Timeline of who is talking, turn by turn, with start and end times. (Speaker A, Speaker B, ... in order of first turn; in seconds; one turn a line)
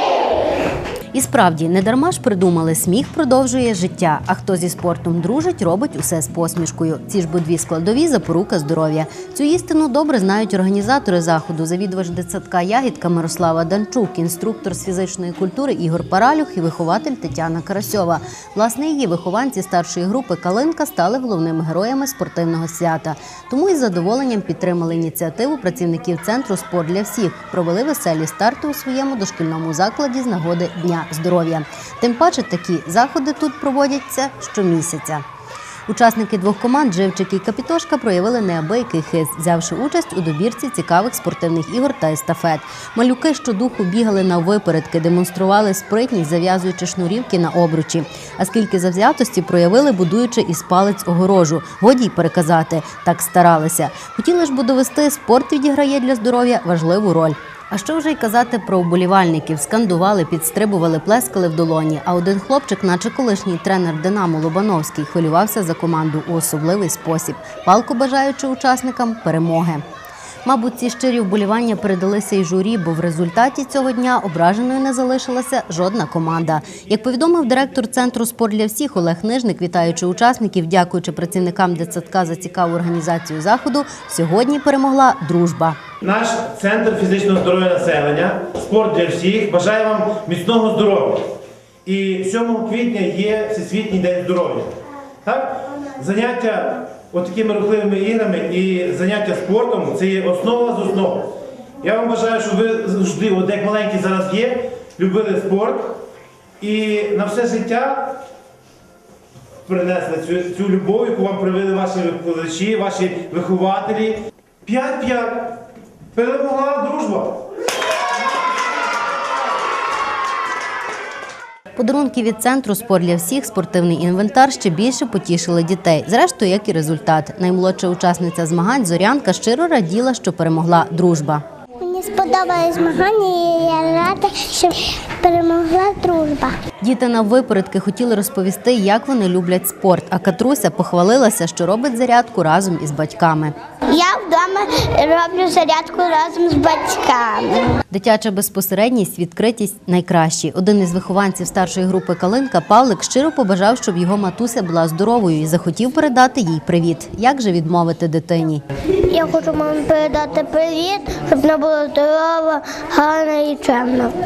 Speaker A: 1.1-35.2
Speaker A: 35.9-69.8
Speaker A: 70.5-85.8
Speaker B: 86.0-94.7
Speaker B: 95.2-106.0
Speaker B: 106.6-108.2
Speaker B: 109.7-115.6
Speaker B: 116.1-117.4
Speaker A: 121.8-131.4
Speaker C: 131.8-136.6
Speaker A: 136.8-143.6
Speaker C: 143.9-147.8
Speaker A: 147.9-158.6
Speaker C: 159.1-164.1